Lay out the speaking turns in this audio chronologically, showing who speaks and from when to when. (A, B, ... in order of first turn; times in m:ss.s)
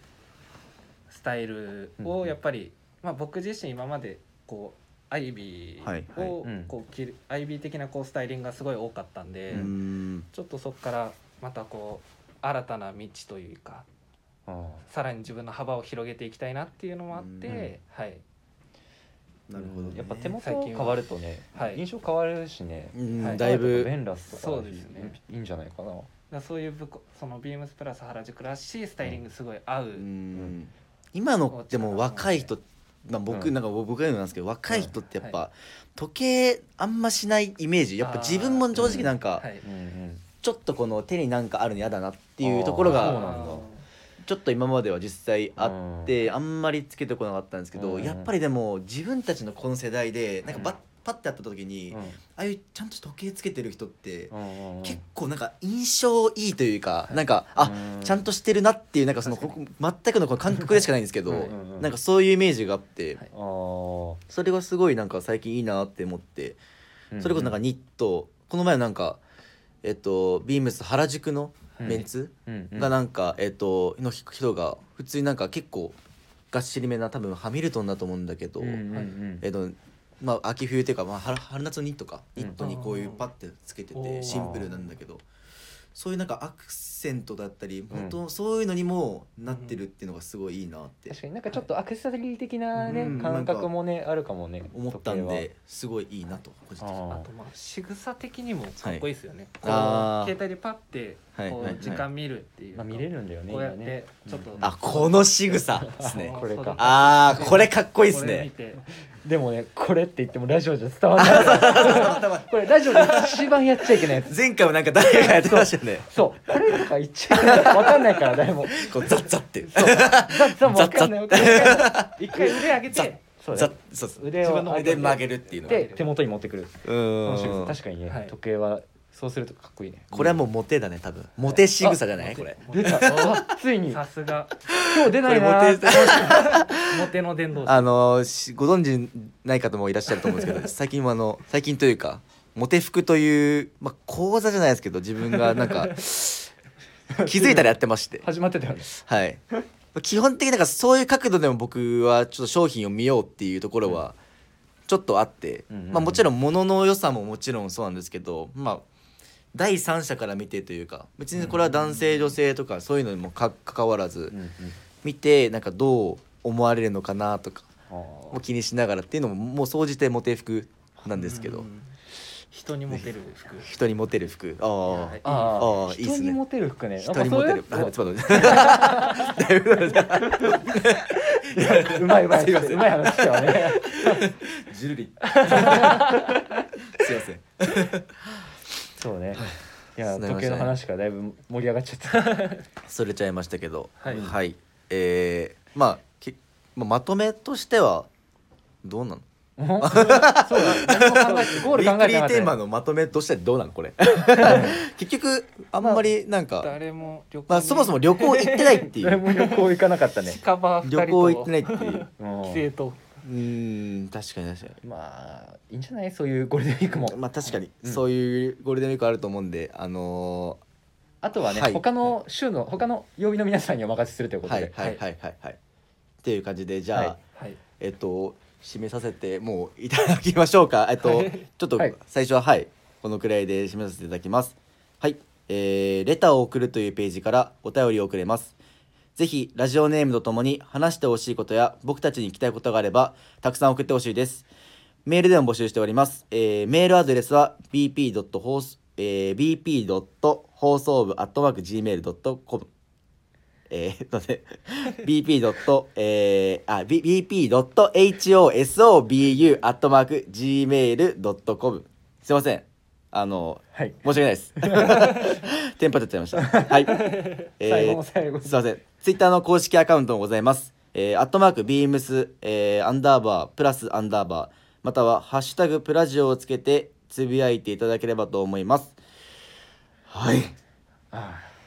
0:01.1-0:09.7 A
0:02.0-0:02.3 B
0:05.8-0:06.3 C
0:06.2-0:06.7 B
0:09.5-0:10.3 C
0:10.3-0:13.8 A
0:14.5-0:14.8 B
0:14.9-0:18.2 A
0:17.1-0:17.6 C
0:17.4-0:17.7 B
0:19.5-0:20.3 C
0:19.5-0:26.1 B
0:20.4-0:21.8 A
0:22.9-0:23.9 C
0:23.2-0:23.4 A
0:24.3-0:25.2 A
0:26.3-0:30.1 A
0:30.0-0:39.4 C
0:31.5-0:32.5 A
0:34.7-0:34.9 B
0:38.0-0:39.6 A
0:38.7-0:40.2 B
0:40.4-0:43.6 C
0:42.4-0:43.7 B
0:42.8-0:43.8 A
0:44.2-1:03.2 C
0:45.6-0:46.1 B
0:47.7-0:48.3 B
0:50.5-0:50.8 A
0:51.9-0:52.2 B
0:54.3-0:55.0 B
0:57.6-0:58.2 B
0:59.2-0:59.5 A
1:00.7-1:01.9 B
1:03.3-1:04.2 B
1:04.3-1:06.6 C
1:07.1-1:07.6 B
1:07.2-1:09.2 C
1:09.8-1:16.0 C
1:11.7-1:12.0 A
1:11.8-1:12.9 B
1:16.5-1:18.8 C
1:18.6-1:19.4 B
1:19.4-1:25.2 C
1:22.6-1:23.2 A
1:23.9-1:24.8 A
1:24.3-1:24.7 B
1:25.9-1:31.2 C
1:27.9-1:28.2 B
1:29.5-1:29.8 A
1:31.1-1:35.5 B
1:32.7-1:33.7 C
1:32.9-1:33.3 A
1:34.7-1:37.0 C
1:36.8-1:37.3 B
1:37.1-1:48.8 A
1:39.6-1:40.3 C
1:41.4-1:42.0 C
1:42.7-1:44.7 B
1:44.6-1:48.5 C
1:45.8-1:46.8 B
1:49.2-1:54.4 B
1:51.2-1:53.3 C
1:51.6-1:52.2 A
1:54.0-1:56.0 C
1:55.2-1:58.9 B
1:57.3-1:58.2 C
1:58.7-2:05.9 C
1:59.6-2:01.9 B
2:01.3-2:03.2 A
2:03.4-2:10.4 B
2:04.7-2:06.1 A
2:06.8-2:07.8 C
2:08.0-2:08.3 A
2:10.1-2:13.5 C
2:12.1-2:14.6 A
2:12.7-2:14.0 B
2:14.7-2:17.1 C
2:14.8-2:16.5 B
2:16.1-2:17.9 A
2:17.6-2:26.5 C
2:27.1-2:28.9 B
2:27.2-2:28.2 C
2:28.9-2:29.4 C
2:29.9-2:34.2 C
2:34.9-2:38.8 C
2:35.7-2:36.2 B
2:39.5-2:44.4 C
2:44.3-2:44.8 B
2:45.0-2:47.7 C
2:47.9-2:48.4 B
2:48.3-2:51.7 C
2:51.1-2:52.0 A
2:52.5-2:53.7 A
2:53.6-2:56.4 C
2:54.9-2:55.5 A
2:55.2-2:59.4 B
2:57.0-3:06.1 C
3:00.2-3:04.2 B
3:05.2-3:06.3 A
3:05.4-3:06.4 B
3:06.9-3:08.5 C
3:09.0-3:12.5 B
3:10.1-3:10.8 C
3:12.1-3:12.6 A
3:12.8-3:18.1 C
3:14.0-3:14.3 A
3:14.1-3:14.4 B
3:18.8-3:19.2 C
3:19.6-3:22.5 B
3:19.8-3:26.7 C
3:21.1-3:21.7 A
3:24.4-3:24.8 B
3:26.6-3:29.7 A
3:27.5-3:29.2 C
3:29.0-3:30.4 B
3:30.2-3:33.0 A
3:30.8-3:32.0 C
3:32.2-3:32.6 B
3:33.2-3:34.8 C
3:34.8-3:37.2 B
3:37.1-3:40.6 C
3:41.2-3:44.7 B
3:41.4-3:41.8 C
3:44.4-3:45.6 C
3:46.2-3:47.2 C
3:47.3-3:47.6 A
3:47.8-3:58.6 C
3:51.0-3:51.5 A
3:59.2-4:04.5 C
4:05.0-4:12.7 C
4:13.7-4:39.0 C
4:23.7-4:24.0 B
4:24.6-4:25.4 B
4:26.4-4:28.6 B
4:27.0-4:27.4 A
4:40.1-4:40.5 C
4:41.1-4:41.5 B